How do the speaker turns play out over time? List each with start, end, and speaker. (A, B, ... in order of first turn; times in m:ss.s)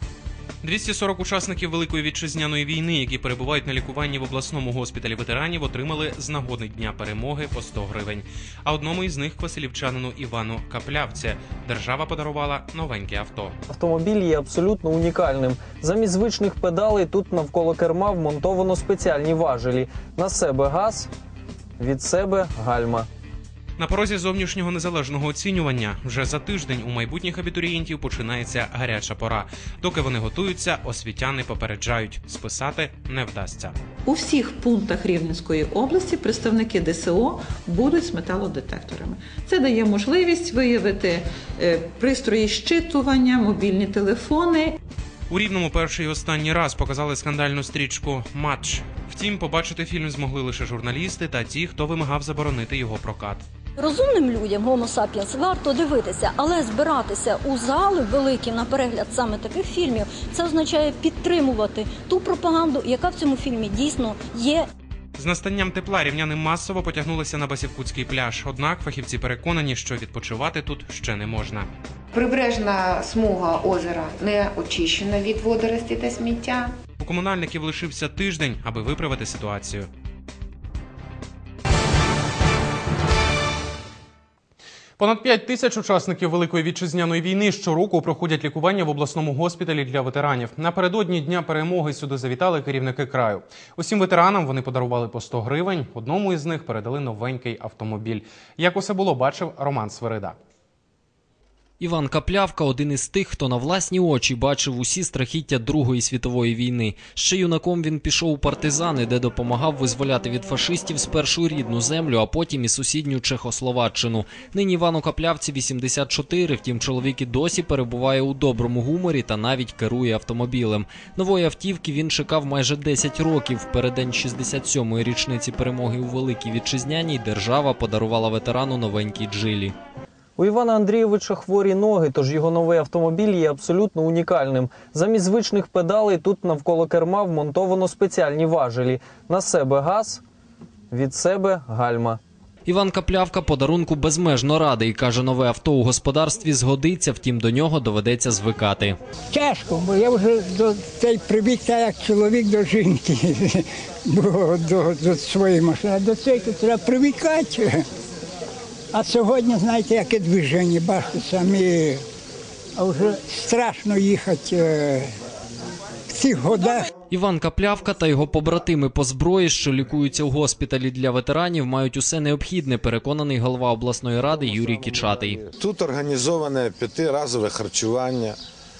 0:00.6-0:13.6 A
0:13.7-0:21.1 B
0:21.8-0:23.1 B
0:23.8-0:33.8 A
0:34.0-0:44.8 C
0:45.3-0:53.4 A
0:53.8-1:04.7 D
1:05.2-1:11.7 A
1:12.1-1:16.7 E
1:17.0-1:19.9 A
1:25.0-1:40.4 A
1:41.8-2:09.7 F
2:10.4-2:20.2 B
2:20.9-2:22.2 B
2:22.6-2:29.0 F
2:29.3-2:37.8 G
2:38.9-2:42.0 G
2:42.8-2:45.1 G
2:46.1-2:46.9 G
2:47.1-2:55.4 F
2:55.4-2:58.4 H